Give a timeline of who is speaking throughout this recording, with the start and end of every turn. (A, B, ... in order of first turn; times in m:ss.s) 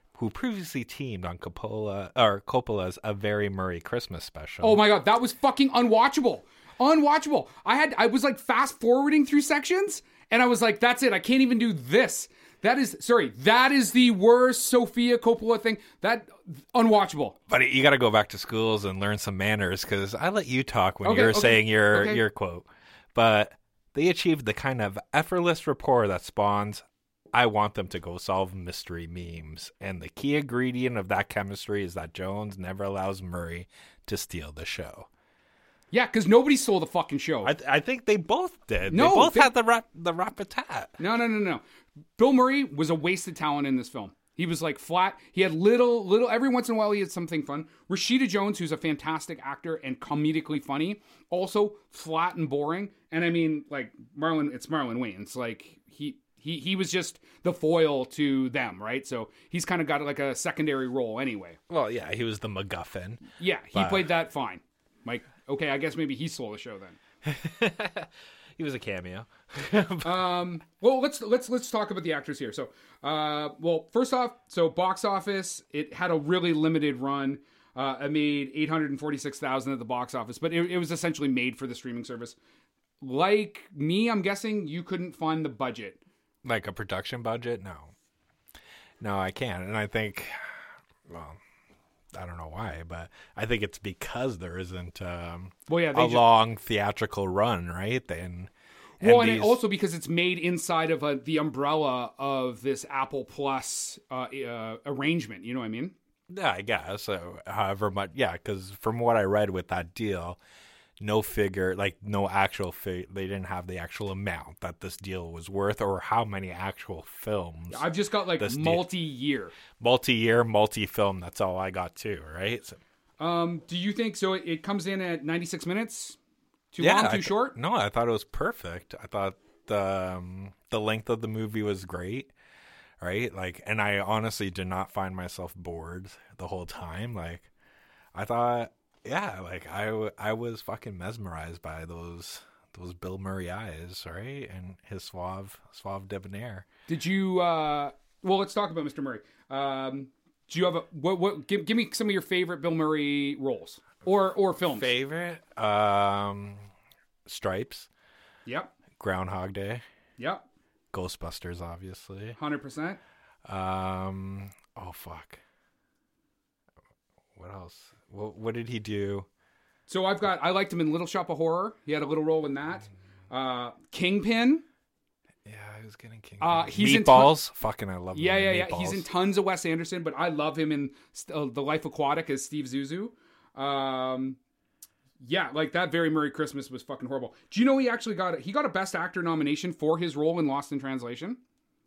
0:00.1-0:04.8 A
0:04.6-0:17.4 B
0:17.5-0:35.1 A
0:21.0-0:22.2 B
0:35.9-0:37.5 B
0:37.4-0:41.0 A
0:38.9-0:39.5 B
0:41.0-0:41.6 B
0:42.2-1:01.6 B
1:01.7-1:04.1 A
1:03.4-1:07.0 B
1:07.2-1:10.2 A
1:10.0-1:22.4 B
1:23.0-1:26.0 B
1:26.4-1:27.9 A
1:29.0-1:31.4 A
1:32.1-1:39.6 A
1:35.7-1:36.2 B
1:39.0-1:46.0 B
1:46.3-1:50.4 A
1:51.0-1:58.8 A
1:57.7-1:59.6 B
1:59.8-2:02.8 A
2:03.2-2:06.2 B
2:06.7-2:07.6 B
2:06.8-2:12.3 A
2:13.0-2:17.5 A
2:18.1-2:26.7 A
2:26.9-2:34.9 B
2:34.7-2:36.6 A
2:37.3-2:37.9 A
2:38.5-2:38.8 B
2:39.0-2:39.8 A
2:40.2-2:40.4 B
2:40.9-2:42.4 A
2:42.4-2:43.0 B
2:43.5-2:45.4 A
2:47.4-2:49.3 A
2:49.9-2:54.6 B
2:55.4-2:59.1 A
2:56.4-2:57.4 B
2:58.1-3:04.4 B
3:05.2-3:11.4 B